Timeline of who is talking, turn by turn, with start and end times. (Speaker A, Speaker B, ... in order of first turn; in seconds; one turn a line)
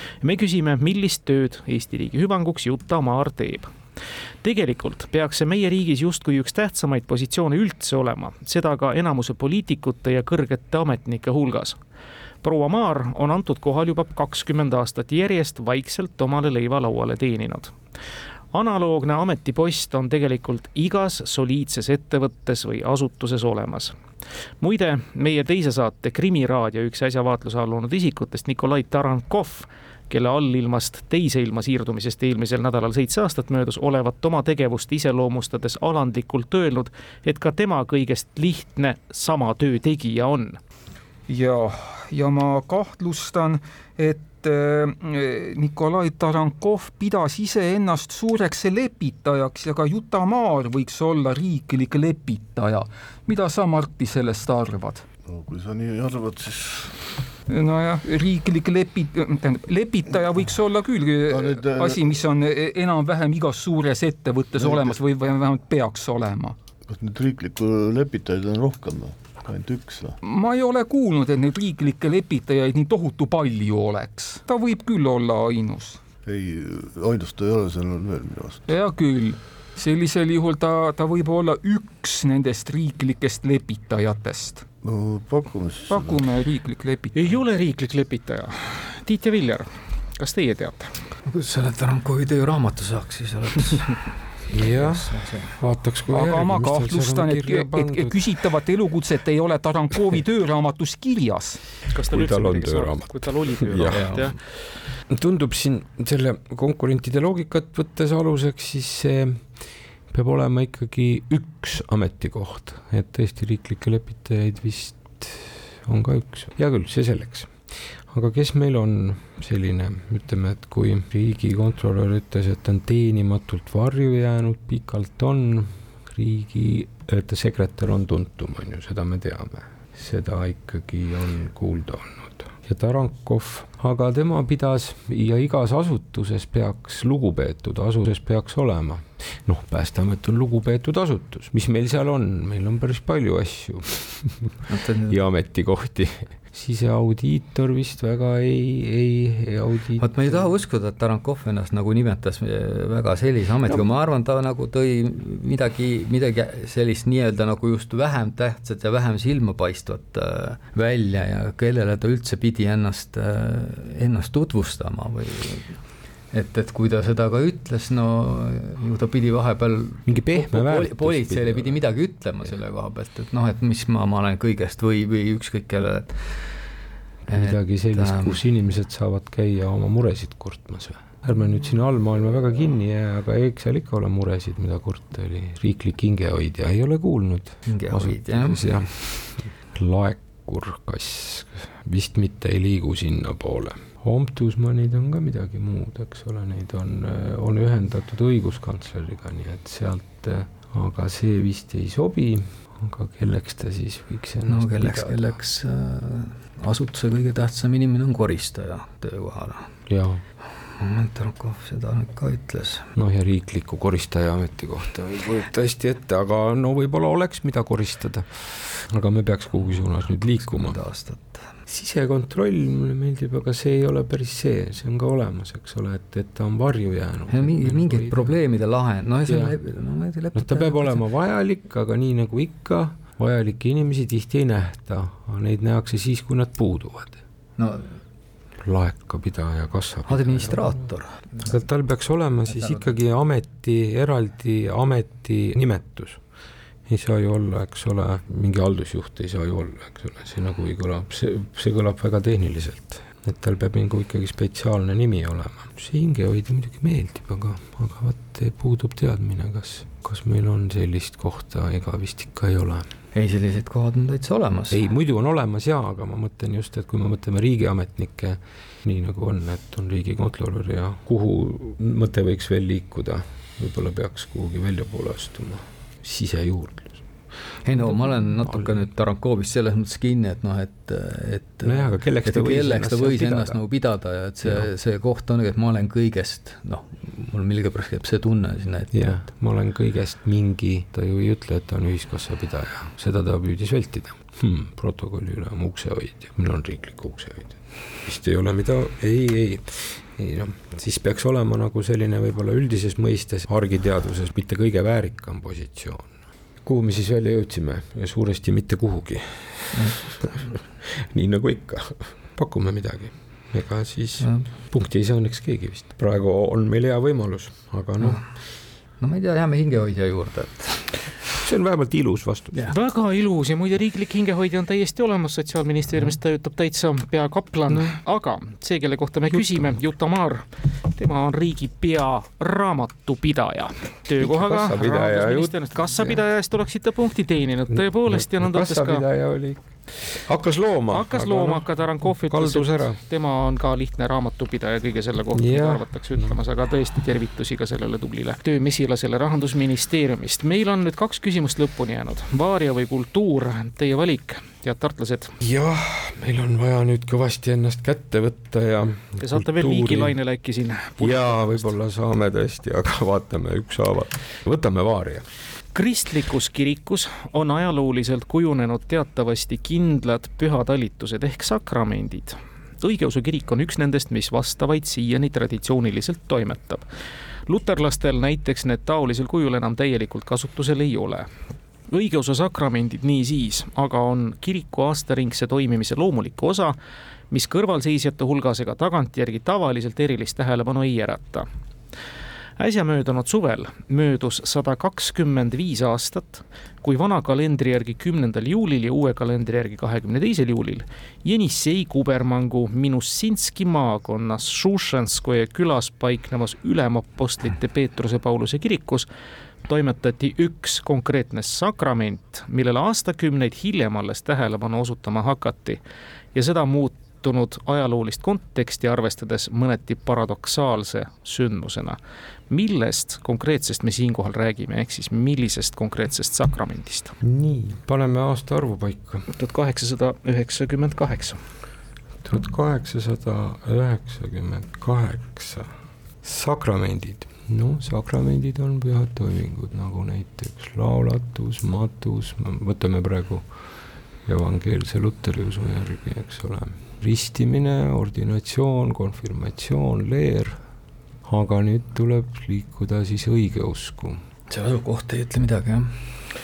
Speaker A: 0.2-3.7
Speaker A: 4.4-11.8
Speaker A: 12.4-17.7
Speaker A: 18.5-23.9
Speaker A: 24.6-40.6
Speaker B: 41.3-55.0
Speaker C: 55.3-57.0
Speaker B: 57.5-66.6
Speaker C: 61.3-62.0
Speaker C: 64.6-65.0
Speaker C: 66.9-70.2
Speaker B: 70.2-76.0
Speaker C: 76.2-78.7
Speaker B: 78.7-84.7
Speaker C: 84.8-86.3
Speaker B: 85.9-87.4
Speaker A: 87.1-90.9
Speaker D: 91.2-95.6
Speaker E: 94.5-98.3
Speaker B: 96.1-101.6
Speaker A: 101.9-104.3
Speaker E: 102.1-104.3
Speaker D: 103.8-104.3
Speaker E: 105.1-150.5
Speaker D: 144.7-145.2
Speaker D: 150.0-176.6
Speaker E: 170.1-171.8
Speaker D: 177.2-178.4
Speaker E: 177.3-205.2
Speaker D: 187.7-188.7
Speaker D: 204.4-209.7
Speaker E: 209.9-210.2
Speaker D: 210.4-212.9
Speaker E: 212.9-220.8
Speaker D: 220.4-221.5
Speaker E: 221.7-228.4
Speaker D: 227.3-231.0
Speaker E: 229.2-229.6
Speaker E: 230.3-237.2
Speaker D: 237.6-237.9
Speaker E: 238.6-240.9
Speaker D: 240.1-241.6
Speaker E: 241.4-246.2
Speaker D: 242.5-242.9
Speaker E: 246.9-262.9
Speaker D: 263.1-264.8
Speaker E: 264.7-277.0
Speaker D: 277.6-289.1
Speaker E: 277.7-278.8
Speaker E: 281.6-283.6
Speaker E: 284.4-284.7
Speaker E: 288.9-306.1
Speaker E: 306.6-318.2
Speaker D: 309.7-310.1
Speaker D: 314.2-314.4
Speaker D: 318.0-318.2
Speaker D: 319.0-321.0
Speaker E: 321.4-322.7
Speaker A: 322.7-339.1
Speaker E: 327.7-328.0
Speaker E: 329.3-329.7
Speaker E: 334.2-336.2
Speaker E: 337.7-343.0
Speaker A: 340.9-355.3
Speaker E: 345.3-346.4
Speaker E: 355.4-360.2
Speaker A: 359.2-361.6
Speaker E: 361.0-365.3
Speaker A: 365.7-376.8
Speaker A: 377.5-381.3
Speaker A: 381.9-386.8
Speaker A: 387.3-391.5
Speaker A: 392.6-409.1
Speaker A: 409.7-415.8
Speaker A: 416.3-422.0
Speaker A: 422.5-427.1
Speaker E: 427.2-429.3
Speaker A: 429.3-431.4
Speaker E: 432.2-435.7
Speaker E: 436.2-443.5
Speaker E: 444.2-450.6
Speaker E: 451.2-454.2
Speaker D: 454.5-456.3